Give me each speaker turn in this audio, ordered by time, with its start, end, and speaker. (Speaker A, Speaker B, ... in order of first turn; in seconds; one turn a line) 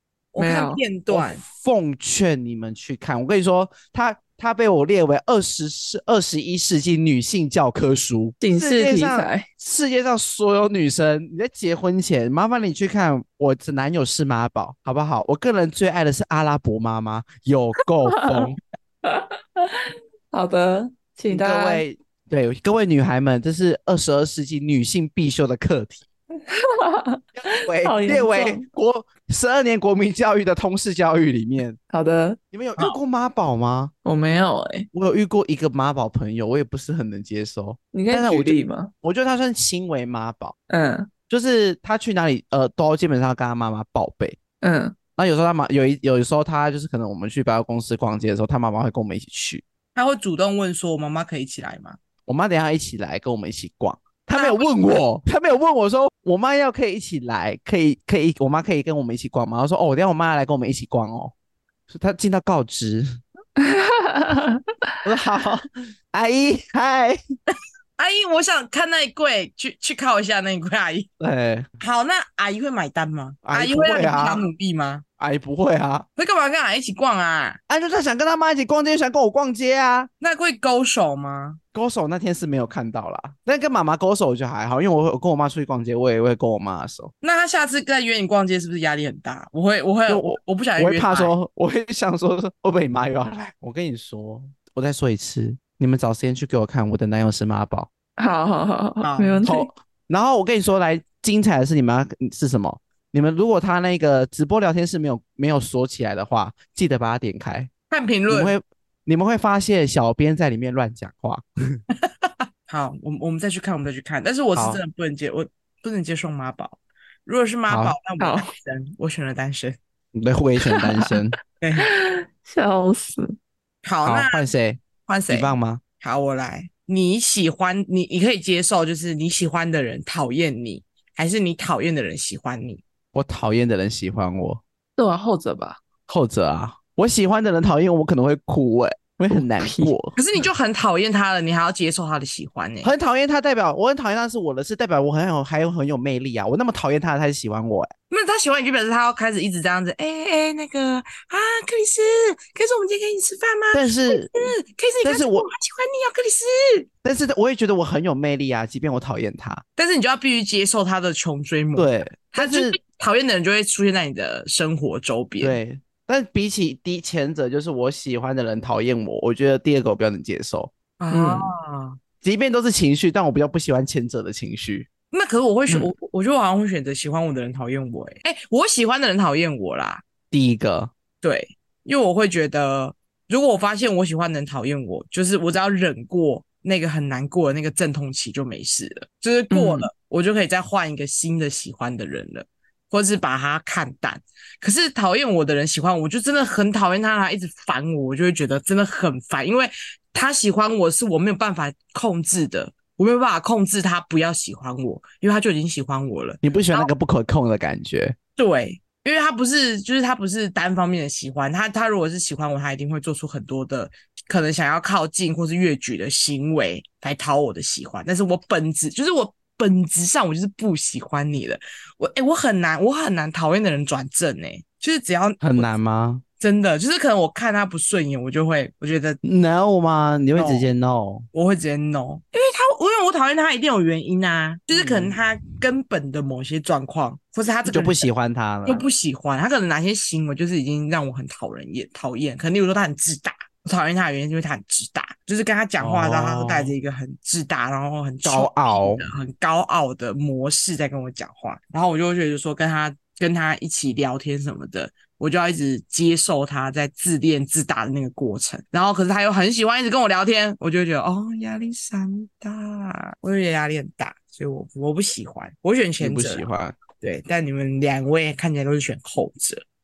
Speaker A: 0.3-1.4
Speaker B: 0.4-0.8
Speaker C: 1.1-18.6
Speaker B: 8.4-9.5
Speaker B: 18.1-18.5
Speaker B: 19.0-21.8
Speaker C: 21.3-26.0
Speaker B: 26.5-28.6
Speaker C: 27.4-31.8
Speaker B: 31.9-32.4
Speaker C: 32.5-33.9
Speaker B: 34.0-34.9
Speaker C: 34.9-40.5
Speaker B: 37.9-38.9
Speaker B: 40.7-41.1
Speaker C: 41.3-44.4
Speaker B: 44.6-45.0
Speaker C: 45.2-49.6
Speaker A: 49.9-52.0
Speaker C: 52.3-61.3
Speaker A: 54.3-54.6
Speaker C: 61.9-63.2
Speaker B: 63.6-64.8
Speaker C: 65.0-67.2
Speaker A: 68.0-71.1
Speaker C: 71.2-71.7
Speaker A: 71.8-75.0
Speaker C: 73.4-74.4
Speaker C: 75.2-76.0
Speaker A: 76.2-77.6
Speaker C: 77.7-80.1
Speaker A: 80.2-81.6
Speaker C: 81.7-87.1
Speaker A: 87.2-91.3
Speaker C: 90.1-97.9
Speaker B: 98.2-99.7
Speaker A: 99.0-99.5
Speaker C: 99.4-107.7
Speaker A: 107.9-108.5
Speaker C: 108.3-111.8
Speaker A: 112.0-119.8
Speaker C: 114.5-114.8
Speaker C: 117.7-118.0
Speaker B: 118.2-118.5
Speaker C: 120.1-121.3
Speaker B: 120.6-121.1
Speaker A: 121.6-121.9
Speaker B: 121.8-123.3
Speaker A: 123.8-124.5
Speaker C: 124.0-125.8
Speaker A: 125.0-132.8
Speaker C: 133.1-134.6
Speaker B: 135.0-135.8
Speaker C: 136.1-140.1
Speaker B: 139.3-139.9
Speaker A: 140.2-142.9
Speaker C: 142.8-147.9
Speaker A: 148.1-156.9
Speaker C: 153.7-154.5
Speaker C: 155.0-155.5
Speaker C: 157.0-159.6
Speaker A: 159.8-165.6
Speaker C: 161.7-162.8
Speaker C: 165.4-170.7
Speaker A: 171.0-172.0
Speaker B: 171.1-171.5
Speaker C: 172.2-174.9
Speaker A: 175.1-180.0
Speaker C: 180.3-180.9
Speaker A: 181.2-206.9
Speaker B: 189.5-189.9
Speaker C: 206.4-208.2
Speaker A: 208.3-225.7
Speaker C: 225.4-226.2
Speaker A: 226.4-229.2
Speaker C: 229.2-231.2
Speaker A: 230.3-230.7
Speaker A: 231.3-238.0
Speaker C: 234.7-235.2
Speaker C: 237.7-238.8
Speaker A: 238.6-266.5
Speaker C: 245.8-246.7
Speaker C: 248.2-249.0
Speaker C: 266.0-266.8
Speaker A: 267.0-269.6